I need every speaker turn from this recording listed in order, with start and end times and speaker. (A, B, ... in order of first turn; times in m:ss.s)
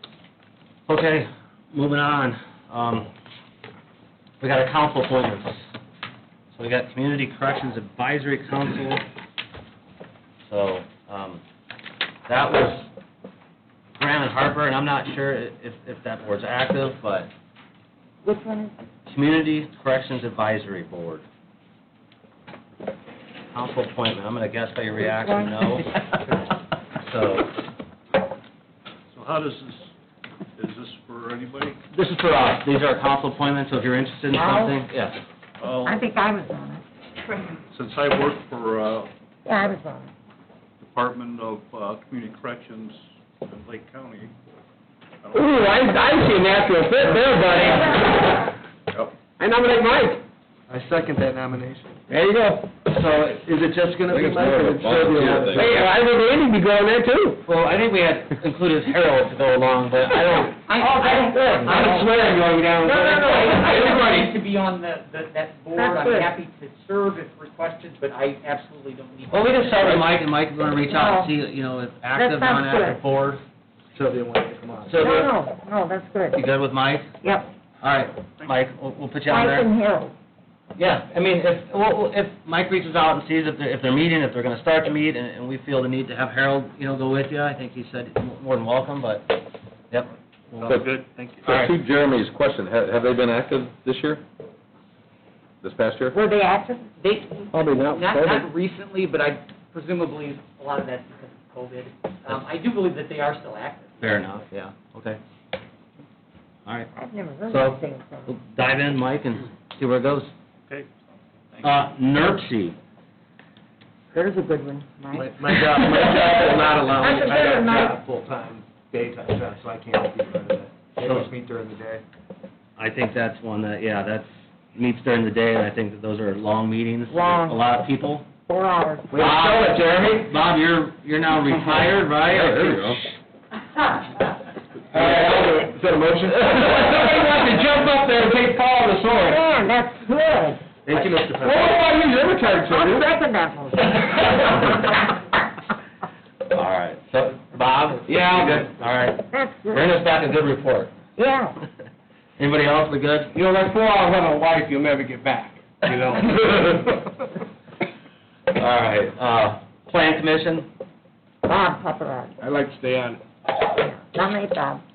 0:00.9-0:03.1 A
0:04.4-0:05.7 A
0:06.5-0:09.0 A
0:10.4-0:11.4 A
0:12.3-0:12.9 A
0:14.0-0:17.3 A
0:18.2-0:18.8 B
0:19.1-0:21.2 A
0:23.5-0:26.0 A
0:25.0-0:25.5 B
0:27.0-0:27.5 A
0:29.1-0:29.9 C
0:30.6-0:31.8 C
0:31.9-0:35.2 A
0:34.3-0:34.8 B
0:35.6-0:36.0 C
0:35.8-0:36.8 B
0:37.7-0:39.1 C
0:39.5-0:40.1 B
0:40.8-0:44.3 C
0:45.2-0:46.4 C
0:45.3-0:48.2 D
0:49.4-0:50.2 D
0:50.7-0:51.9 E
0:54.0-0:55.7 E
0:54.0-0:57.4 D
0:54.1-0:55.9 F
0:57.4-1:00.6 A
1:00.7-1:01.6 G
1:00.8-1:02.1 B
1:01.7-1:03.9 D
1:02.8-1:03.3 B
1:02.9-1:10.1 G
1:03.4-1:04.2 E
1:05.8-1:06.3 B
1:09.3-1:13.4 A
1:10.9-1:11.3 B
1:12.2-1:13.0 B
1:13.9-1:15.0 E
1:14.9-1:15.3 A
1:15.0-1:16.4 B
1:16.3-1:17.1 A
1:17.2-1:17.5 B
1:17.8-1:19.7 A
1:19.3-1:20.2 B
1:20.8-1:29.4 A
1:29.9-1:30.8 A
1:30.6-1:31.4 C
1:31.4-1:31.8 A
1:31.4-1:34.2 F
1:35.6-1:36.2 F
1:36.1-1:36.9 B
1:37.0-1:44.2 G
1:37.5-1:38.4 D
1:44.0-1:45.2 A
1:47.0-1:48.3 B
1:47.5-1:50.3 A
1:51.6-1:52.8 A
1:54.1-1:55.3 B
1:55.2-2:02.0 E
1:55.6-1:57.8 D
1:56.1-1:56.4 B
1:57.0-1:58.0 B
2:01.0-2:01.3 A
2:02.8-2:08.3 A
2:07.1-2:07.6 B
2:08.5-2:09.3 B
2:09.1-2:13.1 A
2:12.2-2:13.1 F
2:14.9-2:19.4 D
2:15.0-2:17.2 E
2:15.0-2:15.2 A
2:19.1-2:20.8 B
2:20.9-2:21.8 E
2:21.3-2:23.1 D
2:22.4-2:24.5 B
2:24.0-2:24.8 A
2:26.5-2:30.9 A
2:28.1-2:28.5 D
2:29.3-2:29.9 B
2:31.2-2:31.6 B
2:32.4-2:33.3 A
2:33.4-2:36.8 D
2:34.6-2:36.2 E
2:38.6-2:40.7 A
2:41.4-2:42.4 B
2:42.5-2:43.2 E
2:43.8-2:44.8 B